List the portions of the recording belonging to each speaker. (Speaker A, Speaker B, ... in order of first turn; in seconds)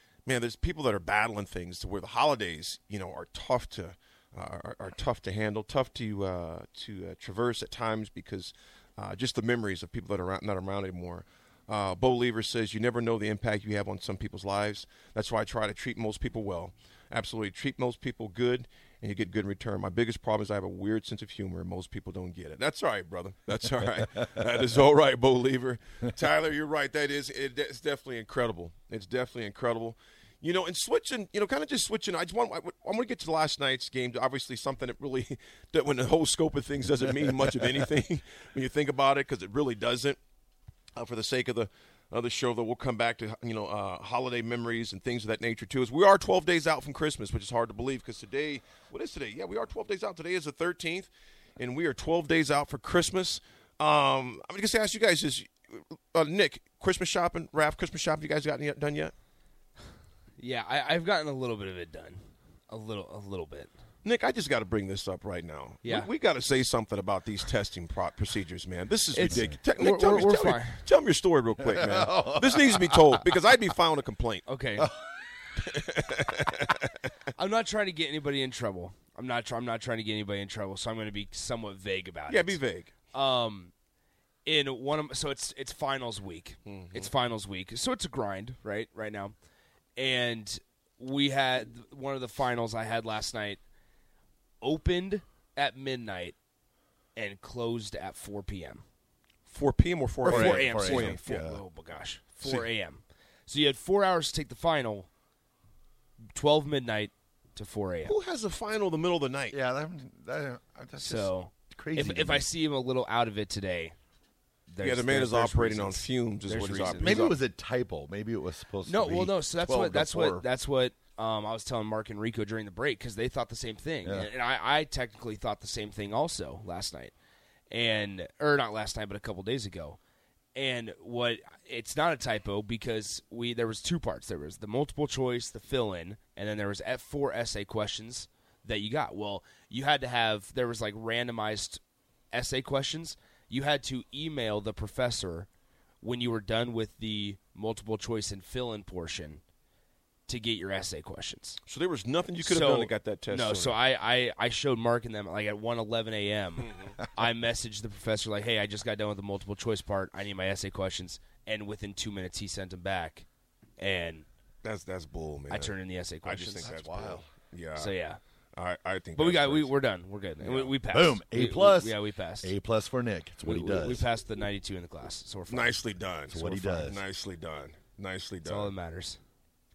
Speaker A: 0.2-40.2, 40.9-59.1, 64.0-74.4, 75.7-76.9, 82.3-82.9, 86.7-87.1, 99.5-101.5, 102.4-102.7, 108.0-109.5, 114.8-117.4, 151.7-153.8, 156.6-156.9, 164.6-167.9, 168.5-169.7, 170.4-170.8, 175.5-178.7
Speaker B: 60.4-63.7, 65.8-66.1, 69.1-70.8, 74.5-74.9, 77.3-82.6, 83.1-83.7, 84.4-89.3, 90.0-93.6, 94.6-96.3, 97.1-98.8, 100.2-105.1, 106.3-108.2, 111.0-113.9, 114.7-117.3, 118.8-127.1, 127.7-130.0, 130.5-145.5, 146.0-149.4, 150.3-151.6, 152.4-163.2, 163.8-164.2, 165.5-166.7, 167.8-168.2, 169.1-172.5, 173.4-175.8, 178.4-179.2
Speaker C: 71.6-73.2, 100.2-101.6, 109.5-112.5, 117.0-120.4, 124.0-124.3, 166.6-167.2, 170.9-174.1, 176.3-177.0